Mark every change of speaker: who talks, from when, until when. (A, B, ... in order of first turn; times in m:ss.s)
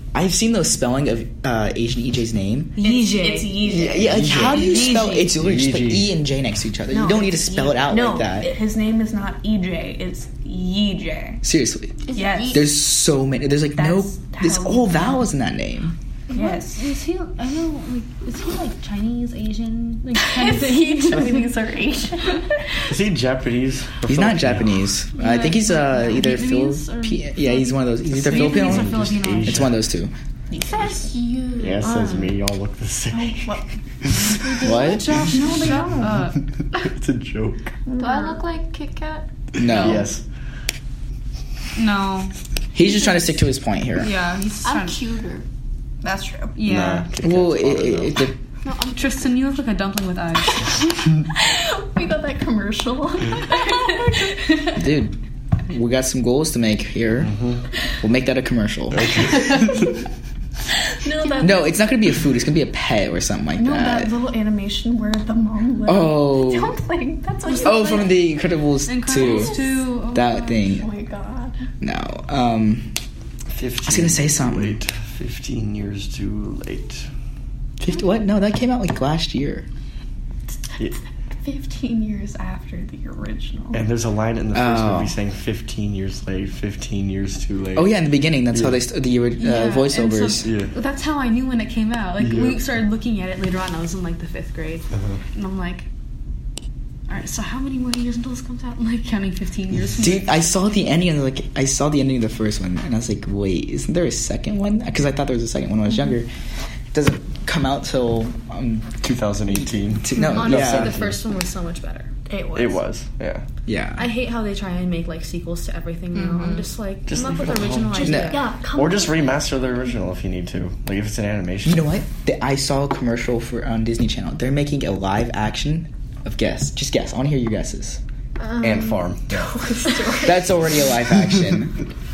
0:00.1-0:02.8 A
0:02.8-0:05.3 B
0:02.8-0:05.1 C
0:03.6-0:08.6 A
0:04.0-0:06.1 D
0:06.9-0:11.4 C
0:11.4-0:16.0 A
0:12.1-0:12.7 E
0:12.1-0:12.7 C
0:13.7-0:15.1 C
0:16.3-0:16.8 C
0:16.3-0:21.5 B
0:20.2-0:22.8 C
0:22.8-0:24.8 D
0:24.1-0:30.1 A
0:25.2-0:29.7 B
0:28.2-0:29.8 D
0:30.5-0:31.1 C
0:30.6-0:32.0 E
0:31.6-0:34.6 D
0:31.8-0:32.2 B
0:33.1-0:33.7 C
0:34.2-0:36.2 C
0:34.4-0:36.4 B
0:34.6-0:35.4 A
0:36.7-0:37.8 D
0:37.9-0:38.4 C
0:38.0-0:39.3 E
0:39.6-0:40.1 A
0:39.6-0:40.2 D
0:41.8-0:43.2 B
0:42.7-0:44.1 A
0:44.0-0:45.0 B
0:44.6-0:45.4 E
0:46.0-0:46.6 C
0:46.6-0:47.1 B
0:46.6-0:48.3 D
0:47.2-0:48.4 A
0:48.6-0:49.2 E
0:48.9-0:50.9 B
0:51.3-0:54.7 C
0:54.7-0:55.2 A
0:55.7-0:57.3 A
0:57.2-0:57.6 D
0:58.0-0:59.7 A
0:58.9-0:59.9 D
1:01.0-1:01.7 C
1:01.4-1:04.1 A
1:03.6-1:08.1 C
1:05.9-1:06.8 A
1:07.4-1:08.3 B
1:07.6-1:10.9 A
1:08.8-1:10.7 B
1:09.3-1:09.6 C
1:10.6-1:11.6 C
1:11.8-1:13.0 A
1:13.5-1:17.1 D
1:13.9-1:14.8 A
1:17.8-1:19.7 A
1:21.4-1:23.8 C
1:23.7-1:28.0 D
1:24.5-1:25.2 A
1:27.8-1:30.5 A
1:28.5-1:28.8 D
1:29.4-1:35.9 B
1:30.4-1:30.8 D
1:32.2-1:32.6 D
1:34.9-1:35.2 D
1:37.1-1:40.6 B
1:40.0-1:46.3 A
1:46.9-1:49.0 A
1:49.0-1:51.2 D
1:49.9-1:51.0 A
1:50.2-1:52.1 B
1:52.3-1:52.8 C
1:52.5-1:53.4 D
1:53.7-1:54.1 A
1:54.0-1:58.5 B
1:56.2-1:56.7 C
1:57.1-2:01.9 D
1:58.0-1:58.4 A
1:58.3-1:59.1 C
2:01.6-2:08.0 A
2:08.6-2:09.6 D
2:09.4-2:10.8 C
2:10.2-2:11.8 A